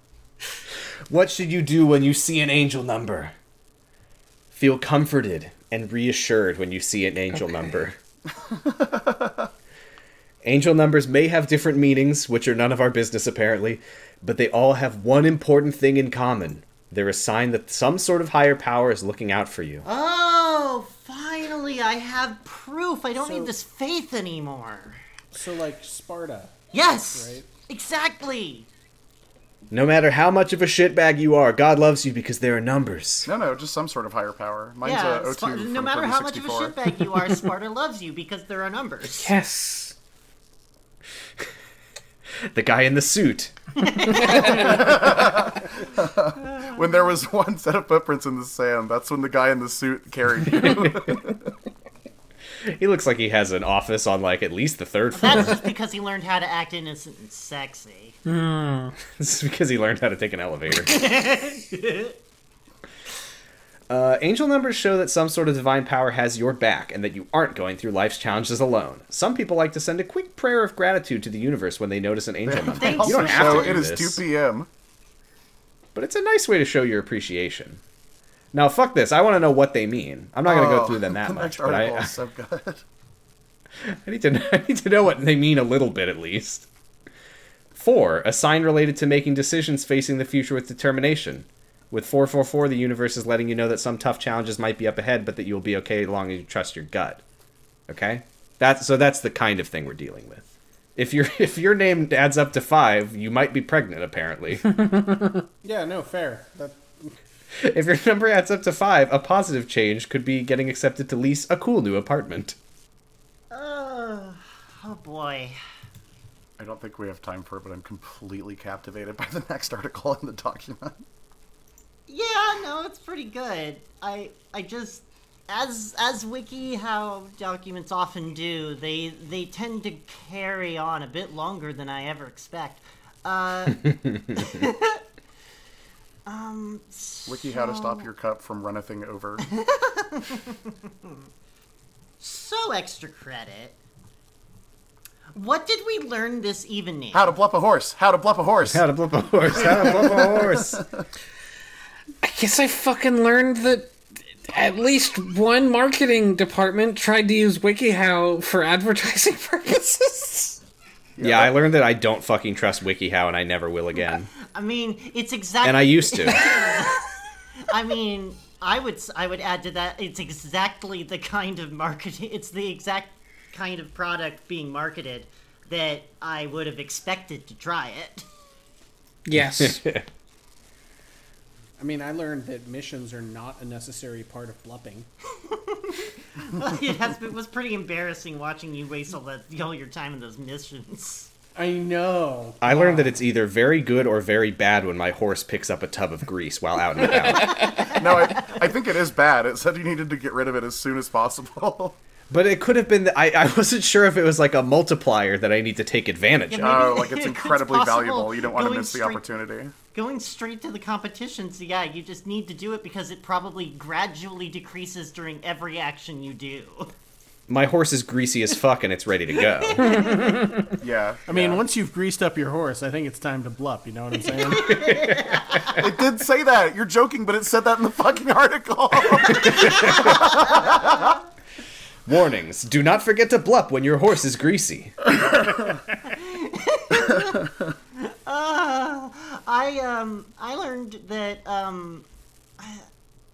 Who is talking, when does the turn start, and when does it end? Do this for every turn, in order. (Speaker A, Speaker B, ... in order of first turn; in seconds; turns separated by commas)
Speaker A: 1.1-3.3, Speaker A: 4.5-8.0, Speaker B: 8.7-9.5, Speaker A: 10.4-19.8, Speaker C: 19.8-25.0, Speaker D: 23.2-23.5, Speaker D: 25.3-27.5, Speaker C: 26.7-28.7, Speaker A: 29.7-33.3, Speaker B: 33.3-36.8, Speaker C: 34.8-39.3, Speaker E: 39.1-40.0, Speaker A: 42.5-45.2, Speaker C: 43.8-45.2, Speaker B: 44.4-51.5, Speaker C: 46.4-46.9, Speaker A: 50.5-51.2, Speaker A: 52.7-55.6, Speaker C: 55.1-58.2, Speaker E: 58.3-58.9, Speaker A: 59.1-61.0, Speaker C: 60.8-62.2, Speaker A: 63.9-74.2, Speaker B: 72.5-74.7, Speaker C: 72.7-73.8, Speaker A: 75.9-77.8, Speaker A: 78.5-82.1, Speaker B: 80.5-82.8, Speaker A: 83.8-86.7, Speaker A: 87.7-97.2, Speaker A: 97.9-100.4, Speaker A: 101.0-104.8, Speaker D: 105.6-107.1, Speaker A: 107.6-112.6, Speaker C: 113.5-115.6, Speaker B: 116.6-121.0, Speaker C: 122.1-135.0, Speaker C: 136.3-138.1, Speaker B: 137.3-139.5, Speaker C: 139.5-141.2, Speaker C: 142.2-143.8, Speaker C: 145.3-147.3, Speaker B: 147.1-148.8, Speaker A: 148.7-150.8, Speaker B: 149.5-151.0, Speaker E: 152.2-153.9, Speaker E: 154.5-160.6, Speaker B: 161.2-161.6, Speaker A: 161.2-164.3, Speaker C: 164.4-167.1, Speaker A: 165.6-166.6, Speaker C: 167.7-178.3, Speaker E: 179.3-179.8, Speaker A: 179.4-180.1, Speaker D: 181.8-185.1, Speaker C: 185.4-191.3, Speaker D: 191.6-193.1, Speaker A: 192.6-197.7, Speaker B: 197.7-202.0, Speaker C: 197.8-198.6, Speaker A: 202.3-207.0, Speaker C: 206.5-209.2, Speaker B: 206.6-209.7, Speaker C: 209.9-216.9, Speaker A: 217.5-220.1, Speaker C: 219.8-220.5, Speaker E: 220.0-220.7, Speaker B: 220.8-221.6, Speaker D: 221.3-225.2, Speaker C: 224.3-225.9, Speaker B: 225.7-231.1, Speaker C: 229.3-231.1, Speaker A: 229.4-230.3, Speaker A: 232.1-235.1, Speaker C: 236.0-242.1, Speaker C: 242.6-242.9